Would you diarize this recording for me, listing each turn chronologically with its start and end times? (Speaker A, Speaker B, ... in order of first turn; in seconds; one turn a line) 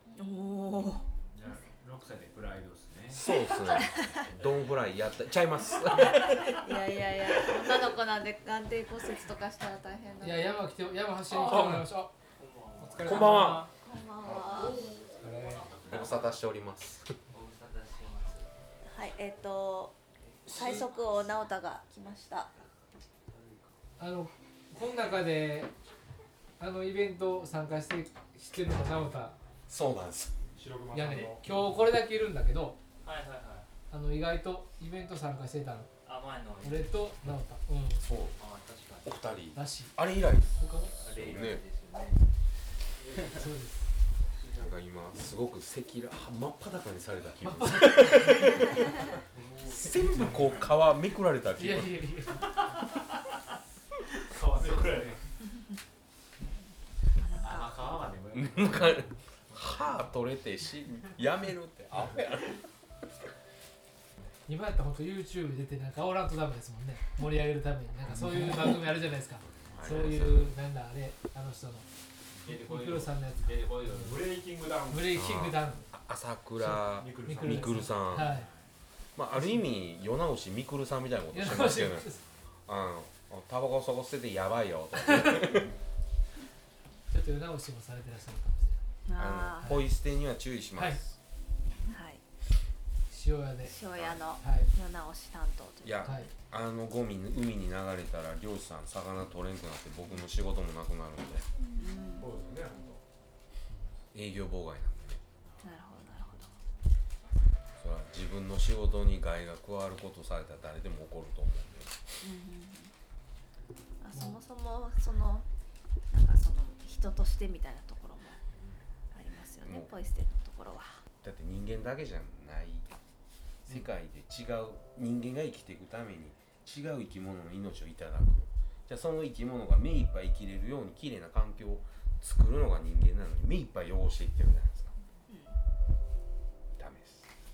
Speaker A: 0.1-1.0
Speaker B: 1.3-4.7
Speaker C: 3.1-6.6
Speaker A: 6.2-10.6
Speaker D: 10.2-12.1
Speaker C: 11.4-11.9
Speaker E: 12.4-13.1
Speaker D: 12.8-13.7
Speaker C: 13.0-13.7
Speaker F: 13.0-13.6
Speaker A: 13.8-14.9
Speaker F: 14.8-15.8
Speaker D: 15.2-15.7
Speaker C: 15.9-17.1
Speaker E: 17.3-18.5
Speaker A: 18.8-22.5
Speaker E: 20.3-20.6
Speaker D: 24.0-25.7
Speaker D: 26.6-29.4
Speaker C: 29.7-30.4
Speaker F: 30.5-31.4
Speaker D: 30.9-32.8
Speaker E: 33.0-33.7
Speaker D: 33.9-35.9
Speaker E: 36.0-37.0
Speaker D: 36.6-38.1
Speaker C: 38.0-38.4
Speaker E: 38.4-39.2
Speaker C: 39.0-41.6
Speaker D: 39.5-40.0
Speaker D: 40.6-41.0
Speaker E: 40.9-42.2
Speaker D: 43.2-43.9
Speaker C: 44.6-49.0
Speaker D: 47.4-48.5
Speaker F: 49.3-50.7
Speaker C: 49.7-52.1
Speaker D: 51.5-52.4
Speaker B: 54.3-55.2
Speaker F: 54.3-55.2
Speaker A: 57.2-57.7
Speaker B: 57.4-60.2
Speaker C: 58.3-62.6
Speaker D: 64.5-71.9
Speaker C: 69.7-70.5
Speaker B: 72.3-74.2
Speaker D: 72.5-74.2
Speaker F: 73.9-75.2
Speaker D: 74.9-75.8
Speaker C: 75.1-78.3
Speaker D: 76.6-78.5
Speaker F: 76.9-78.0
Speaker B: 78.2-78.7
Speaker C: 79.2-82.1
Speaker D: 81.3-82.2
Speaker C: 82.7-85.7
Speaker D: 85.1-85.6
Speaker D: 87.1-88.8
Speaker A: 89.1-89.8
Speaker C: 89.2-91.2
Speaker A: 91.9-92.2
Speaker D: 93.1-93.8
Speaker A: 93.6-96.3
Speaker D: 94.4-94.7
Speaker C: 95.8-101.5
Speaker D: 96.0-96.3
Speaker A: 101.8-102.3
Speaker F: 102.2-103.0
Speaker C: 104.1-105.2
Speaker A: 105.6-106.5
Speaker C: 107.8-111.9
Speaker A: 112.2-112.9
Speaker A: 114.0-115.5
Speaker A: 116.1-118.4
Speaker A: 119.1-121.0
Speaker C: 119.6-119.9
Speaker C: 121.2-122.9
Speaker C: 123.7-134.9
Speaker A: 135.3-135.6
Speaker C: 136.8-137.3